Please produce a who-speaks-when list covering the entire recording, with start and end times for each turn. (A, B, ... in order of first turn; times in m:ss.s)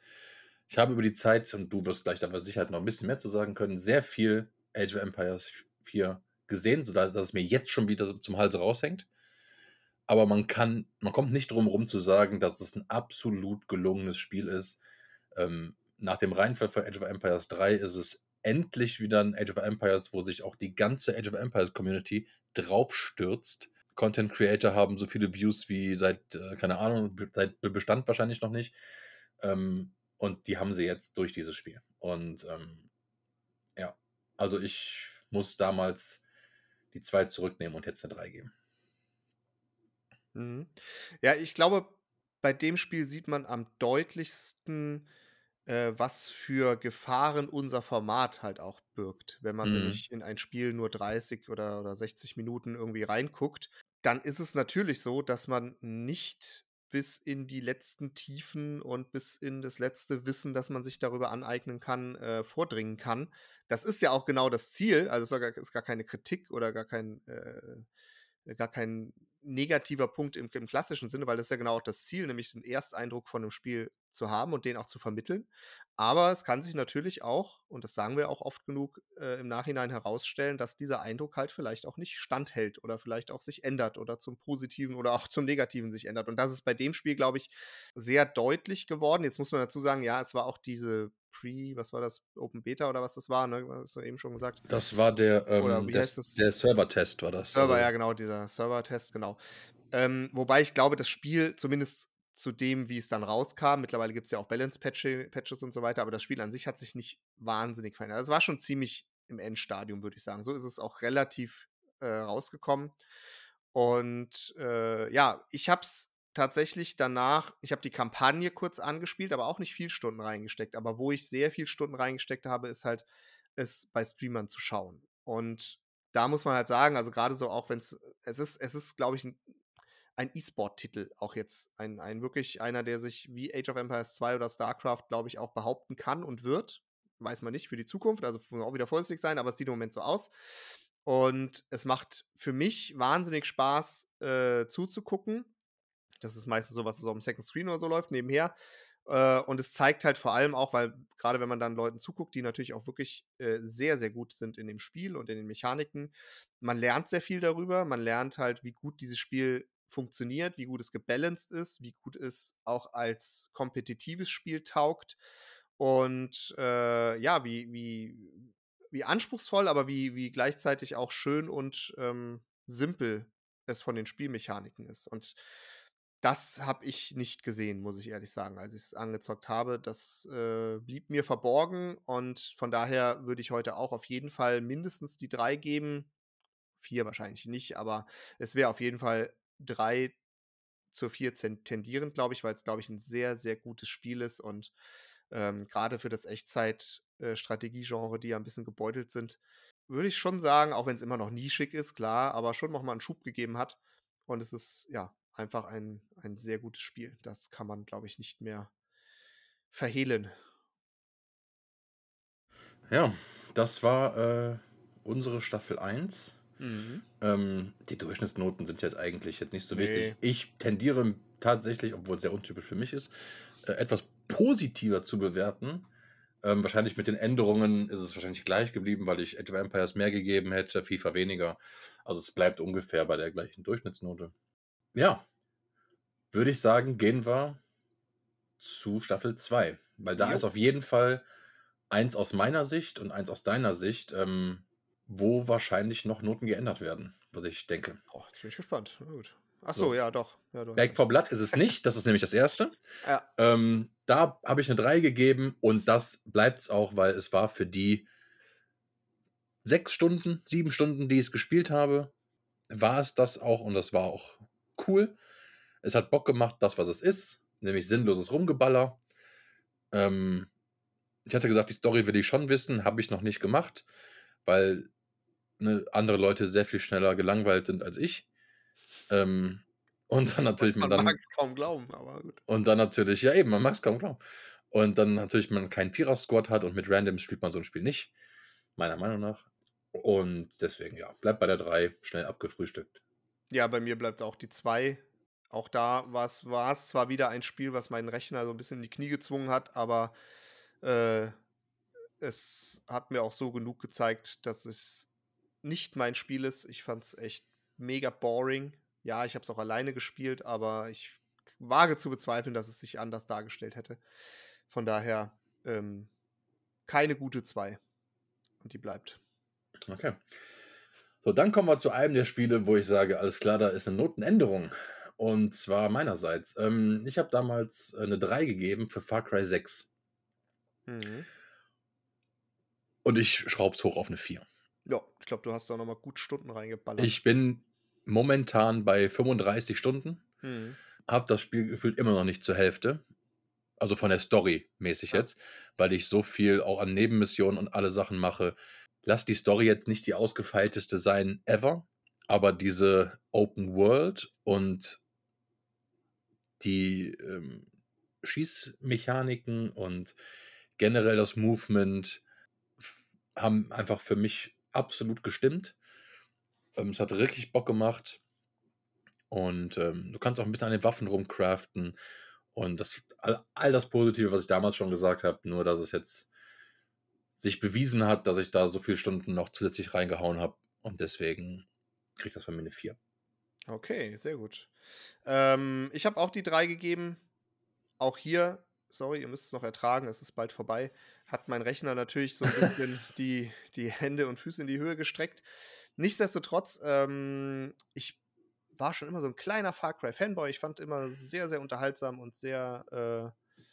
0:00.7-0:09.1 A
0:10.1-0:14.8 A
0:15.3-0:28.7 A
0:29.4-0:32.9 A
0:33.8-0:36.2 A
0:36.9-0:38.5 A
0:40.3-0:45.1 B
0:45.6-1:07.8 B
0:49.6-0:50.0 A
1:08.4-1:34.6 B
1:34.6-1:37.9 A
1:35.6-1:36.4 B
1:37.5-1:39.4 B
1:39.9-1:53.0 B
1:53.7-2:03.0 B
2:03.6-2:09.4 B
2:10.2-2:20.3 B
2:21.0-2:25.5 B
2:26.2-2:28.5 B
2:29.0-2:45.2 B
2:45.8-2:55.4 B
2:56.2-3:06.1 B
3:06.8-3:10.2 B
3:10.9-3:14.7 B
3:15.3-3:28.7 B
3:29.7-3:30.3 B
3:32.9-3:36.4 A
3:36.6-3:37.0 B
3:37.2-3:45.9 A
3:39.7-3:40.2 B
3:46.4-3:54.3 A
3:54.9-3:55.2 A
3:56.3-3:57.6 A
3:58.6-4:01.2 A
4:00.2-4:00.4 B
4:01.9-4:08.0 A
4:08.1-4:11.0 B
4:10.8-4:12.8 A
4:13.4-4:18.1 A
4:19.6-4:22.1 A
4:22.7-4:25.2 A
4:25.8-4:29.0 A
4:29.9-4:30.5 A
4:31.2-4:33.8 A
4:34.4-4:34.9 A
4:35.6-4:38.2 A
4:39.1-4:41.2 A
4:40.6-4:42.4 B
4:42.5-4:48.1 A
4:48.8-4:53.0 A
4:53.5-5:00.1 B
5:00.8-5:01.3 B
5:02.2-5:05.1 B
5:05.6-5:14.0 B
5:14.7-5:16.1 B
5:16.9-5:17.8 B
5:18.6-5:19.2 B
5:19.8-5:20.3 A
5:21.2-5:29.9 A
5:30.9-5:31.3 B
5:33.0-5:34.4 A
5:34.8-5:37.2 B
5:37.0-5:40.2 A
5:40.4-5:40.8 B
5:41.0-5:43.0 A
5:43.8-5:55.0 A
5:56.6-5:57.6 A
5:58.2-6:00.1 A
6:00.8-6:02.2 A
6:02.8-6:05.8 A
6:06.8-6:08.2 A
6:09.3-6:11.9 A
6:12.5-6:16.3 A
6:17.4-6:21.6 A
6:22.2-6:23.0 A
6:23.7-6:24.7 B
6:25.2-6:27.2 B
6:28.0-6:35.4 B
6:36.0-6:38.2 B
6:38.8-6:43.3 B